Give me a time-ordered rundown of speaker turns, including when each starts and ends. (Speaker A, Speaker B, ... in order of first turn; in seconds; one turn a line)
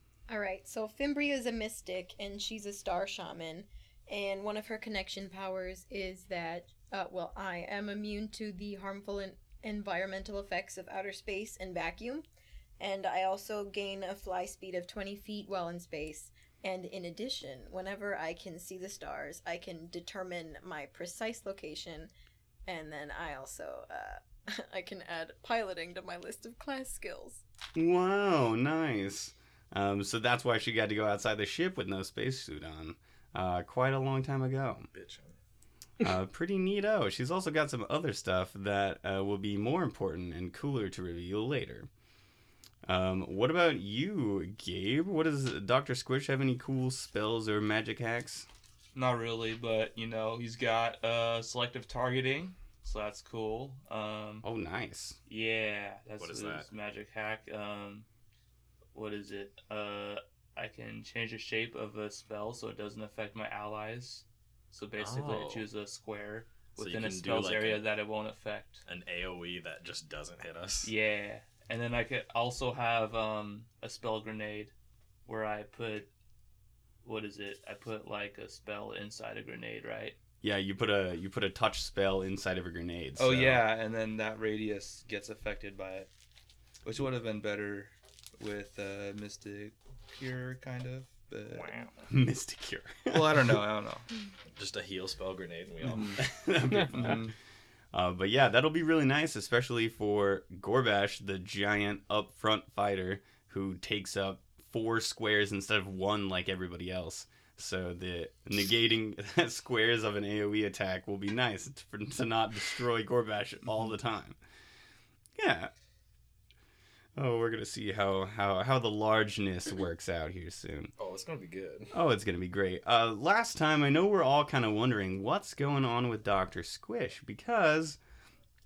Speaker A: 0.3-12.2
Speaker A: 12.8-22.1
Speaker A: 22.7-27.4
Speaker B: 27.8-34.9
Speaker C: 34.9-35.4
Speaker B: 36.0-41.9
Speaker B: 42.9-48.5
Speaker D: 49.0-54.5
Speaker B: 54.4-55.2
Speaker D: 55.3-58.1
Speaker C: 56.2-56.7
Speaker D: 58.9-68.8
Speaker C: 65.0-65.7
Speaker C: 66.8-67.8
Speaker C: 68.9-70.9
Speaker D: 70.8-74.7
Speaker D: 75.3-76.1
Speaker D: 77.0-80.2
Speaker B: 80.4-83.6
Speaker D: 83.2-86.1
Speaker D: 86.8-91.7
Speaker C: 91.5-92.0
Speaker B: 92.1-93.6
Speaker D: 93.1-94.1
Speaker C: 94.6-96.2
Speaker D: 95.9-96.2
Speaker B: 96.2-97.2
Speaker D: 96.9-97.3
Speaker B: 97.9-114.4
Speaker B: 115.4-115.7
Speaker B: 117.2-120.9
Speaker C: 121.0-121.9
Speaker B: 121.9-128.0